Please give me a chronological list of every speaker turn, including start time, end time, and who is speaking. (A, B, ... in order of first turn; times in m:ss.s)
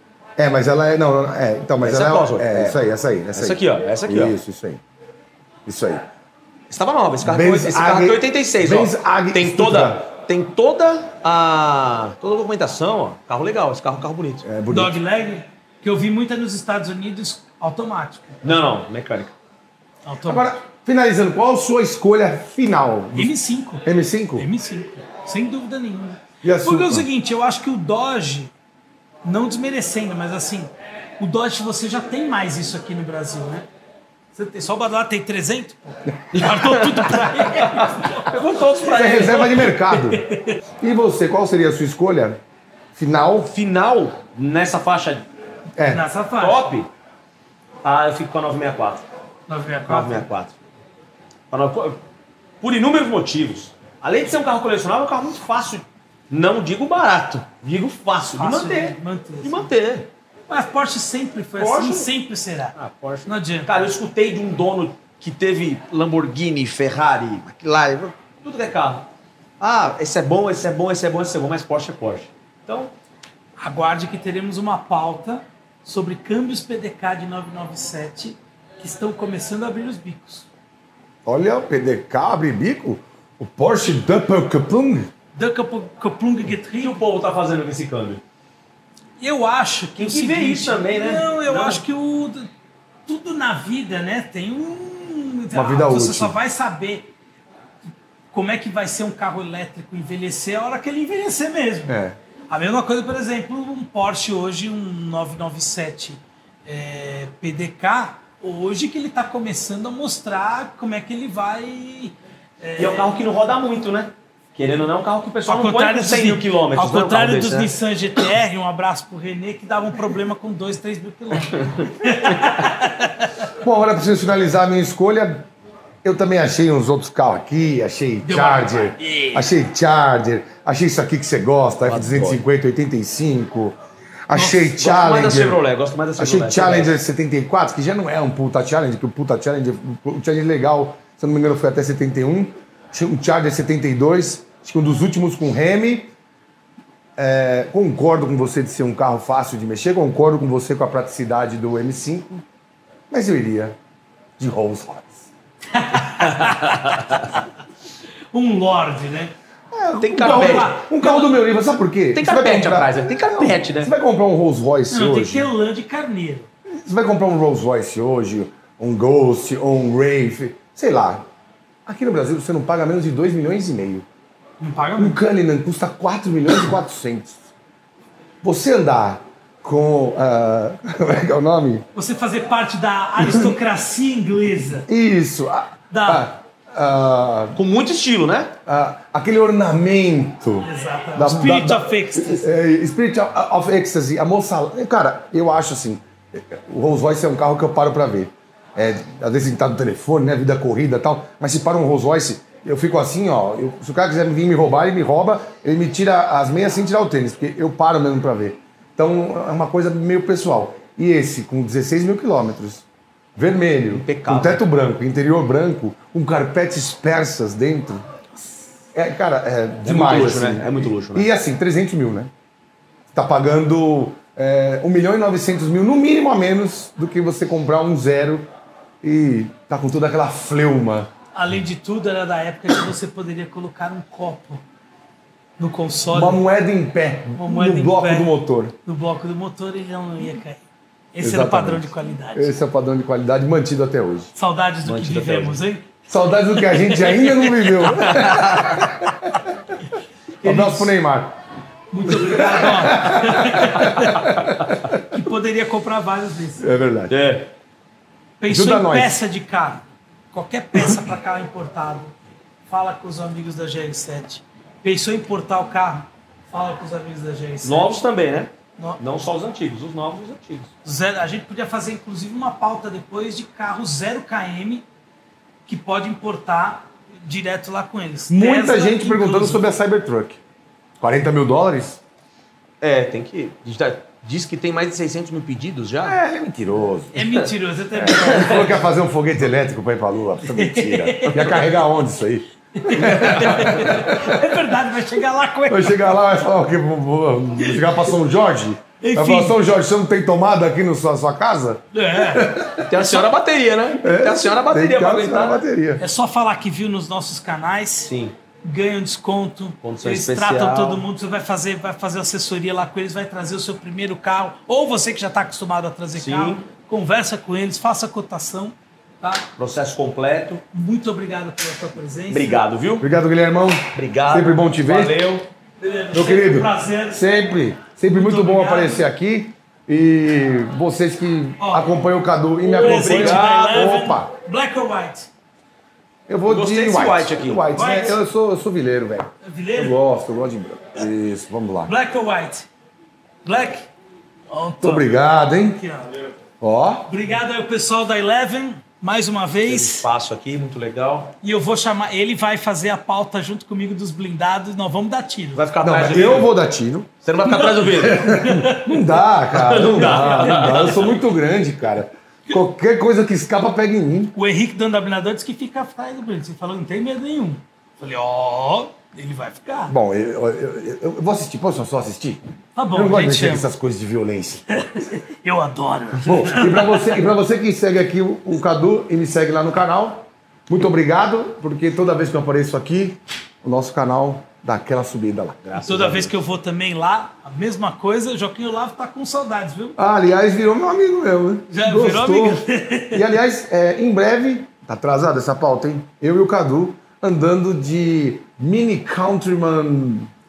0:00.4-0:04.8 A
0:01.8-0:02.8 B
0:03.3-0:04.4 B
0:05.6-0:06.0 A
0:06.7-0:14.4 B
0:07.2-0:10.0 A
0:14.4-0:15.0 A
0:14.7-0:18.4 C
0:18.4-0:19.3 B
0:20.0-0:20.5 C
0:20.2-0:23.3 A
0:23.1-0:23.8 C
0:23.8-0:24.5 A
0:24.4-0:28.5 C
0:26.4-0:27.1 A
0:29.2-0:33.6 C
0:34.3-0:38.3 C
0:36.3-0:39.8 B
0:38.8-0:40.2 A
0:40.1-0:40.6 C
0:40.8-0:42.4 A
0:42.9-0:43.5 A
0:43.5-0:45.2 B
0:45.8-0:46.0 A
0:45.9-0:46.7 C
0:46.4-0:46.9 B
0:47.8-0:49.0 B
0:49.5-0:50.3 C
0:49.9-0:50.5 B
0:51.5-0:52.0 B
0:52.6-1:00.1 B
0:58.3-0:59.7 C
1:00.5-1:03.7 C
1:01.6-1:02.1 B
1:02.8-1:09.1 B
1:09.6-1:12.9 B
1:13.6-1:20.5 C
1:21.2-1:25.1 A
1:25.3-1:27.0 C
1:26.8-1:28.2 B
1:29.2-1:32.5 C
1:30.0-1:31.8 B
1:33.1-1:37.1 C
1:35.5-1:36.3 A
1:38.3-1:41.9 C
1:41.9-1:42.2 A
1:42.5-1:53.1 C
1:52.8-1:57.7 B
1:55.5-2:03.3 C
2:01.6-2:02.3 B
2:03.6-2:05.5 A
2:06.0-2:15.6 A
2:08.2-2:09.5 C
2:11.8-2:12.4 B
2:14.3-2:14.7 C
2:14.8-2:17.0 B
2:16.2-2:26.1 A
2:27.2-2:32.4 A
2:33.1-2:33.8 A
2:34.4-2:35.3 A
2:35.7-2:37.0 C
2:36.4-2:37.2 B
2:38.3-2:39.3 C
2:39.7-2:45.5 A
2:40.0-2:40.8 B
2:40.2-2:41.4 C
2:42.1-2:43.9 B
2:44.9-2:46.5 C
2:46.7-2:51.2 A
2:51.8-2:54.0 A
2:54.6-2:55.2 C
2:55.0-2:57.4 A
2:58.4-3:01.8 A
3:01.9-3:04.9 C
3:03.2-3:03.5 A
3:04.8-3:07.6 A
3:05.9-3:06.3 C
3:07.5-3:08.5 B
3:08.6-3:32.8 A
3:10.6-3:12.4 C
3:33.4-3:38.0 A
3:33.9-3:34.6 B
3:38.9-3:42.3 A
3:39.8-3:41.3 B
3:43.1-3:48.5 A
3:49.0-3:51.1 A
3:51.3-3:54.6 C
3:55.6-3:56.4 C
3:56.1-3:58.7 A
3:57.4-3:58.3 C
3:58.8-4:00.6 C
4:01.1-4:02.5 C
4:01.2-4:04.3 A
4:04.3-4:05.9 C
4:04.8-4:05.6 B
4:06.1-4:09.4 A
4:06.6-4:07.8 C
4:08.0-4:08.8 B
4:10.4-4:10.9 C
4:10.4-4:11.3 A
4:11.9-4:14.3 C
4:12.1-4:14.9 A
4:15.0-4:16.6 C
4:16.6-4:17.1 A
4:17.1-4:17.5 B
4:18.4-4:22.1 C
4:18.5-4:19.2 A
4:22.7-4:28.0 C
4:27.6-4:30.7 B
4:30.8-4:34.8 C
4:35.7-4:39.6 C
4:38.3-4:40.4 A
4:41.0-4:42.0 A
4:42.8-4:46.2 B
4:46.0-4:47.2 A
4:47.1-4:48.9 C
4:47.9-4:54.4 A
4:50.4-4:51.6 C
4:52.8-4:56.1 C
4:55.7-5:03.2 A
4:59.0-4:59.6 C
5:01.9-5:02.6 C
5:02.8-5:05.6 B
5:04.0-5:06.0 A
5:06.0-5:08.1 C
5:08.0-5:08.3 B
5:08.6-5:19.4 C
5:09.8-5:11.0 B
5:16.2-5:16.6 B
5:19.6-5:20.6 B
5:20.7-5:22.6 C
5:22.3-5:23.1 B
5:23.0-5:25.2 A
5:23.9-5:25.5 B
5:25.8-5:27.2 C
5:26.1-5:34.3 A
5:28.1-5:29.0 C
5:31.6-5:31.9 C
5:32.6-5:35.3 C
5:32.8-5:33.7 B
5:36.3-5:41.9 A
5:36.5-5:37.6 B
5:37.7-5:38.2 C
5:39.4-5:40.0 C
5:41.9-5:42.7 C
5:43.4-5:43.9 C
5:44.5-5:46.1 C
5:44.8-5:45.8 A
5:46.6-5:47.1 A
5:47.1-5:50.0 C
5:49.6-5:51.3 B
5:51.4-5:55.6 C
5:55.5-5:56.5 B
5:55.8-5:57.1 A
5:57.2-5:58.3 B
5:57.5-6:01.0 C
5:57.9-6:04.3 A
5:59.5-6:01.2 B
6:04.3-6:09.9 C
6:09.9-6:12.4 A
6:12.8-6:13.7 C
6:12.9-6:14.6 A
6:14.8-6:17.2 C
6:16.2-6:26.3 A
6:25.8-6:30.0 C
6:30.0-6:40.3 A
6:31.7-6:33.3 C